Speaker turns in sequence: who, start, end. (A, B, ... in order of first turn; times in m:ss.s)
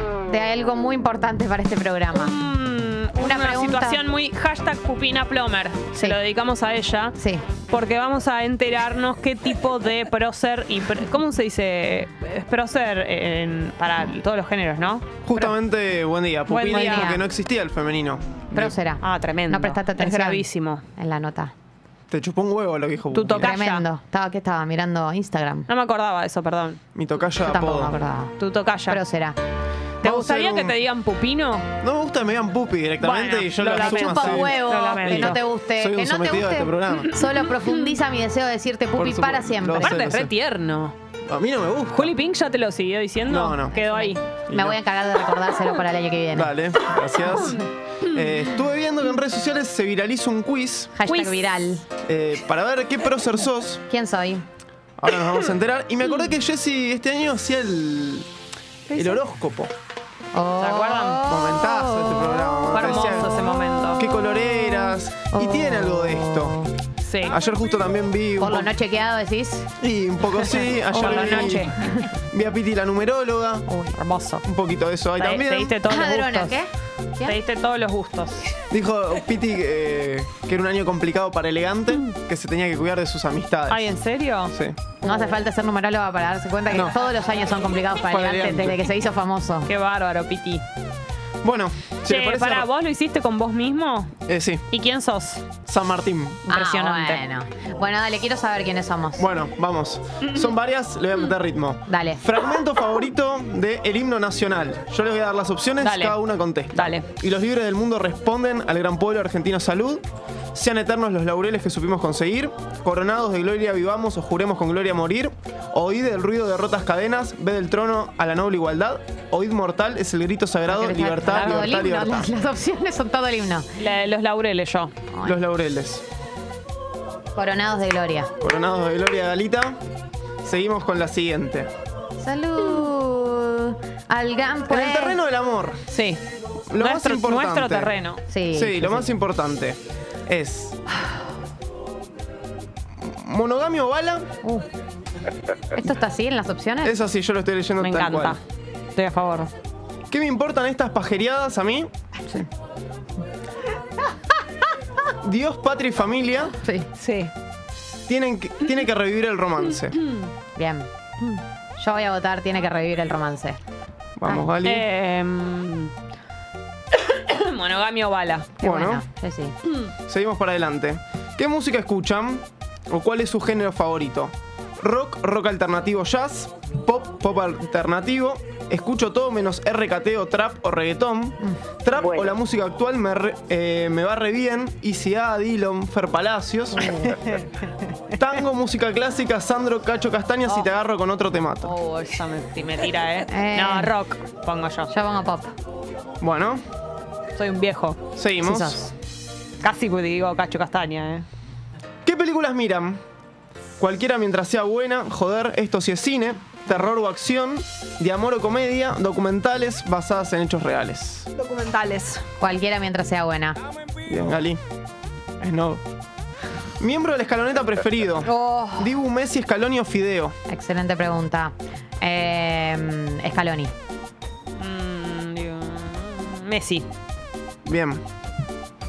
0:00.3-0:02.4 A
0:02.1-0:15.0 B
0:03.2-0:04.0 A
0:07.2-0:07.4 A
0:15.2-0:18.8 C
0:16.5-0:17.2 B
0:16.7-0:17.2 A
0:18.6-0:20.5 A
0:19.0-0:20.8 B
0:21.0-0:21.5 A
0:22.1-0:23.5 C
0:23.1-0:23.8 B
0:23.4-0:25.7 A
0:25.7-0:26.8 B
0:27.0-0:28.0 C
0:27.4-0:28.3 A
0:28.4-0:29.0 B
0:28.9-0:29.4 A
0:30.0-0:30.8 C
0:30.0-0:31.7 B
0:31.8-0:37.1 C
0:33.0-0:35.4 B
0:33.8-0:40.2 A
0:39.0-0:40.3 C
0:39.8-0:41.0 B
0:41.3-0:42.1 C
0:41.9-0:44.2 B
0:43.3-0:43.8 C
0:43.7-0:46.6 A
0:44.5-0:44.8 C
0:46.3-0:51.0 C
0:47.3-0:47.6 A
0:51.0-0:51.9 A
0:51.0-0:51.4 B
0:52.0-0:53.8 C
0:53.9-0:54.4 A
0:55.0-0:58.3 C
0:58.9-0:59.2 B
0:58.9-0:59.7 C
1:00.3-1:06.7 A
1:00.6-1:01.3 B
1:01.3-1:06.6 C
1:02.7-1:04.1 B
1:07.0-1:07.4 B
1:07.3-1:08.7 C
1:08.4-1:09.7 A
1:09.8-1:11.7 C
1:10.9-1:11.8 B
1:10.9-1:12.1 A
1:12.3-1:13.7 C
1:13.7-1:14.0 A
1:13.9-1:14.4 B
1:14.4-1:15.8 C
1:15.2-1:16.6 B
1:15.8-1:17.4 A
1:17.2-1:18.5 B
1:18.7-1:23.9 C
1:23.7-1:24.6 B
1:24.5-1:24.8 C
1:25.0-1:29.7 A
1:26.7-1:27.0 C
1:28.1-1:28.8 C
1:29.7-1:30.6 B
1:31.4-1:32.7 C
1:32.0-1:34.1 B
1:34.3-1:34.6 C
1:34.7-1:35.4 B
1:35.6-1:36.5 C
1:36.5-1:37.2 B
1:36.5-1:39.3 A
1:39.2-2:02.3 C
1:41.9-1:42.2 A
1:45.8-1:46.2 B
1:46.7-1:47.1 B
2:00.7-2:03.7 A
2:03.8-2:04.9 B
2:05.1-2:05.4 A
2:05.2-2:06.0 C
2:07.4-2:08.3 A
2:08.4-2:09.8 C
2:10.4-2:11.7 C
2:12.2-2:15.2 A
2:14.7-2:15.8 C
2:15.9-2:16.2 B
2:16.7-2:17.9 C
2:16.8-2:18.2 B
2:18.3-2:19.0 A
2:18.5-2:20.8 C
2:23.0-2:24.3 C
2:25.7-2:26.9 A
2:26.8-2:28.4 C
2:27.8-2:28.4 B
2:28.9-2:29.5 B
2:30.1-2:31.9 C
2:35.2-2:36.5 C
2:36.6-2:36.9 A
2:36.9-2:37.3 B
2:38.1-2:40.0 C
2:40.0-2:40.3 B
2:40.6-2:43.6 A
2:44.2-2:44.9 C
2:44.6-2:45.9 B
2:46.9-2:48.5 B
2:48.6-2:49.5 A
2:48.6-2:49.0 C
2:50.1-3:07.0 C
3:06.8-3:07.8 B
3:08.2-3:11.8 C
3:11.6-3:14.9 B
3:13.3-3:13.9 A
3:14.9-3:15.5 A
3:16.2-3:16.6 C
3:17.3-3:18.0 B
3:18.2-3:18.8 C
3:18.4-3:18.9 A
3:19.6-3:21.2 B
3:22.0-3:23.0 C
3:23.8-3:31.3 C
3:31.4-3:32.2 B
3:32.4-3:33.6 A
3:34.1-3:34.6 C
3:35.4-3:35.8 C
3:36.8-3:40.3 C
3:38.2-3:38.9 B
3:40.5-3:43.7 A
3:44.6-3:46.8 B
3:47.6-3:48.0 C